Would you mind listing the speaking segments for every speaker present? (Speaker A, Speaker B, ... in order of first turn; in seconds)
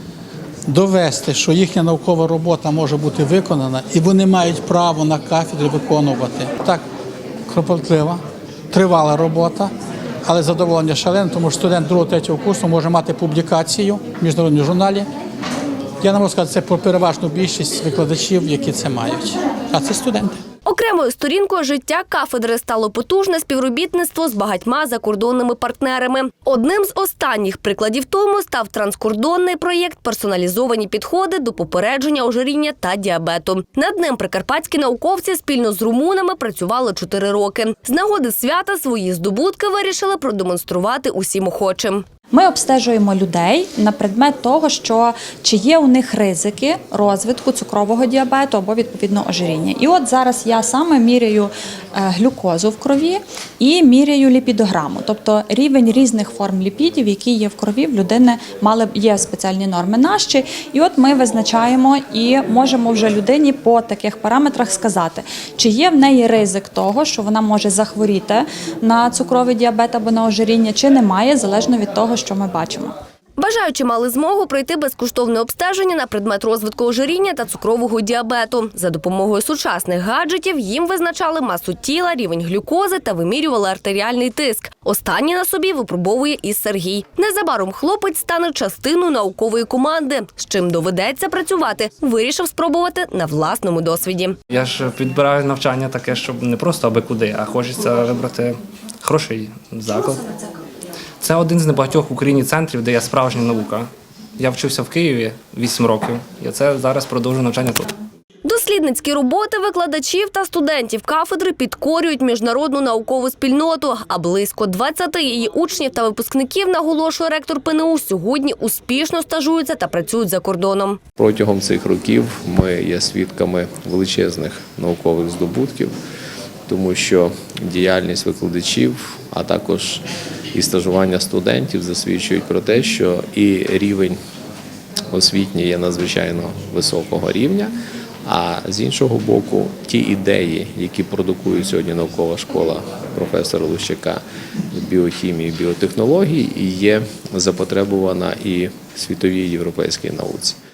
Speaker A: 0.7-6.8, 7.5-9.7, 10.2-15.1, 16.0-20.4
Speaker B: 20.6-42.0, 73.4-94.4, 108.4-121.0
Speaker C: 42.3-72.9
Speaker D: 94.5-100.3, 101.2-107.9
Speaker E: 121.2-125.9, 126.7-134.2, 135.1-150.6